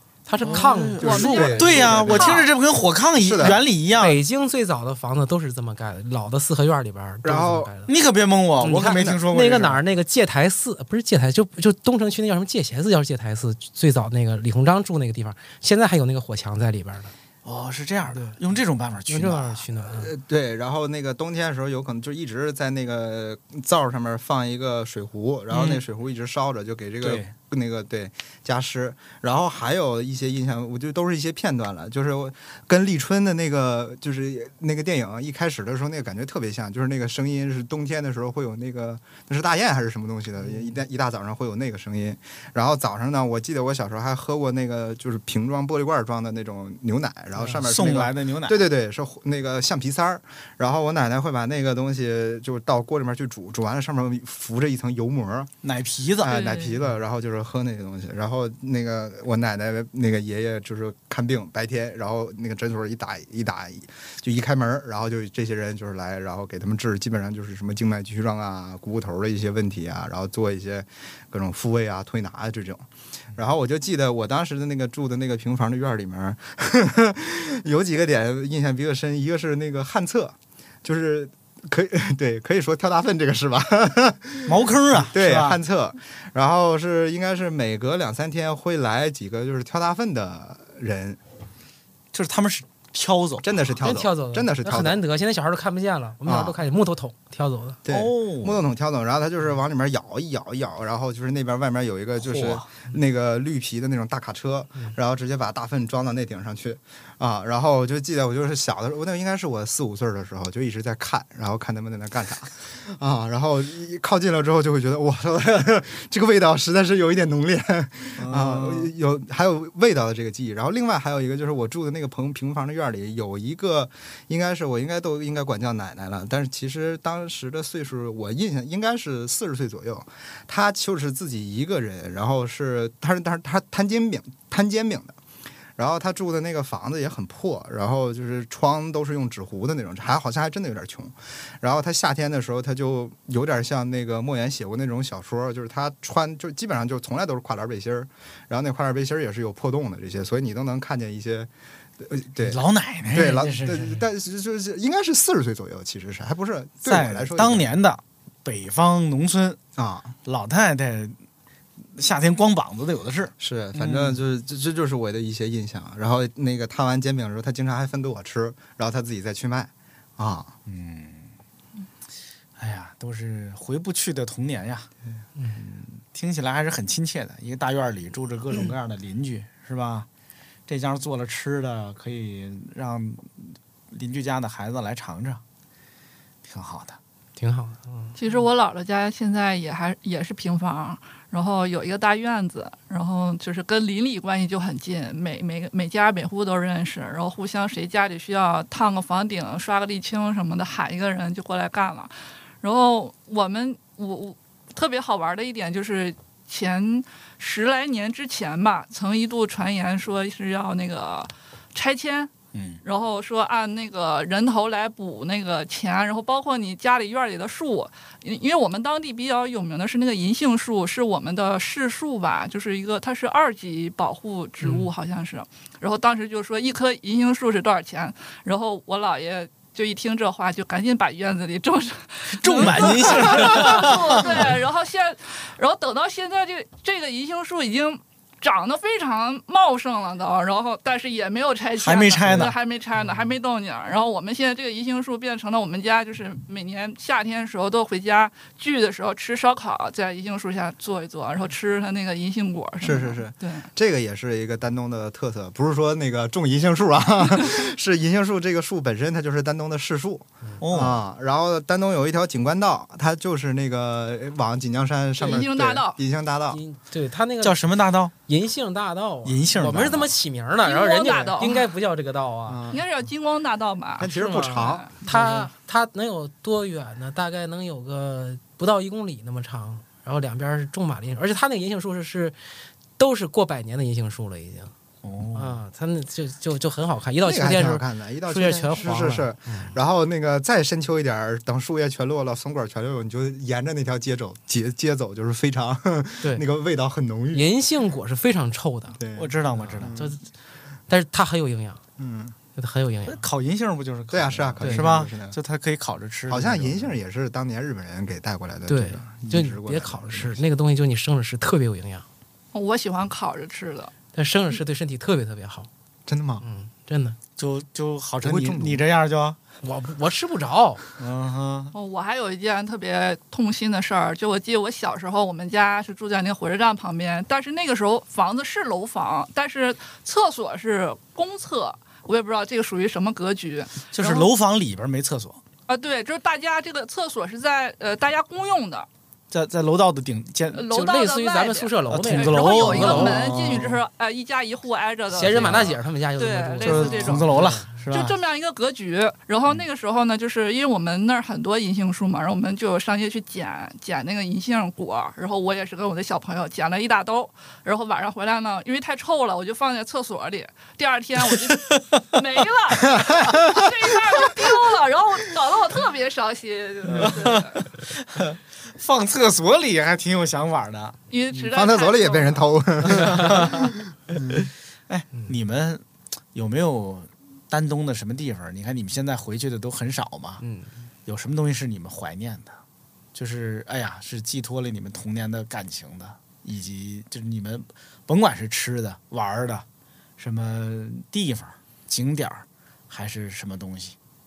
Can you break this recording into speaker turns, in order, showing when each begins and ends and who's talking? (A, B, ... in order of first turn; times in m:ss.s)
0:00.3-0:01.6 A
0:00.4-0:02.5 B
0:00.4-0:04.2 C
0:01.0-0:02.5 D
0:03.1-0:03.6 D
0:04.0-0:07.9 A
0:07.2-0:07.7 D
0:07.9-0:09.8 C
0:08.6-0:17.1 A
0:08.8-0:09.2 D
0:17.4-0:19.7 C
0:19.1-0:20.1 A
0:19.9-0:55.5 D
0:25.5-0:25.8 C
0:27.0-0:27.3 C
0:47.5-0:48.6 C
0:55.6-0:56.3 C
0:56.2-1:31.2 D
0:56.3-0:56.8 B
1:24.4-1:25.6 C
1:32.1-1:33.5 C
1:33.4-1:35.0 D
1:33.8-1:37.8 A
1:36.2-1:36.6 D
1:37.8-2:15.2 D
1:37.9-1:38.6 C
1:42.2-1:42.7 C
1:58.2-1:58.9 C
2:15.8-2:37.7 D
2:32.4-2:34.0 C
2:36.8-2:39.6 C
2:39.8-2:40.2 D
2:40.2-2:41.2 C
2:41.9-2:44.2 C
2:43.4-2:50.5 D
2:50.6-2:51.3 C
2:52.6-2:54.9 C
2:55.5-3:00.1 C
3:00.7-3:05.4 C
3:06.4-3:07.0 C
3:07.4-3:08.2 A
3:08.2-3:32.3 B
3:32.5-3:32.8 C
3:32.8-4:13.7 B
3:52.3-3:54.6 C
4:01.8-4:02.6 C
4:12.8-4:26.6 D
4:20.6-4:21.0 C
4:25.2-4:26.0 B
4:26.5-4:27.6 A
4:27.4-4:28.1 C
4:28.3-4:32.6 A
4:29.2-4:30.1 C
4:30.6-4:31.7 B
4:32.5-4:32.8 D
4:32.7-4:34.9 B
4:34.0-4:35.5 D
4:34.1-4:42.4 A
4:43.0-4:44.7 A
4:45.0-4:45.6 C
4:45.4-4:49.7 A
4:47.2-4:57.5 D
4:57.3-4:59.0 A
4:59.0-5:00.2 D
4:59.2-5:00.0 C
4:59.9-5:00.2 A
5:00.9-5:01.8 A
5:02.0-5:02.4 D
5:02.6-5:03.2 A
5:03.1-5:06.9 C
5:04.1-5:05.4 D
5:04.6-5:04.9 A
5:06.3-5:10.4 D
5:08.7-5:12.0 A
5:12.5-5:13.9 B
5:14.2-5:15.7 A
5:16.1-5:16.4 D
5:16.4-5:17.2 A
5:17.4-5:19.4 C
5:18.2-5:18.8 D
5:19.6-5:20.8 A
5:21.0-5:21.7 C
5:21.7-5:34.3 B
5:33.9-5:35.4 C
5:35.7-5:38.9 B
5:39.3-5:40.7 C
5:40.5-6:07.6 B
5:40.7-5:43.2 A
5:41.9-5:43.8 C
5:45.1-5:47.7 A
5:45.3-5:45.7 C
5:46.6-5:48.2 C
6:01.5-6:01.8 C
6:06.9-6:11.0 C
6:11.1-6:12.5 B
6:11.5-6:13.7 D
6:12.9-6:20.4 C
6:20.4-6:20.7 A
6:21.1-6:22.6 C
6:23.1-6:29.6 C
6:30.2-6:34.0 C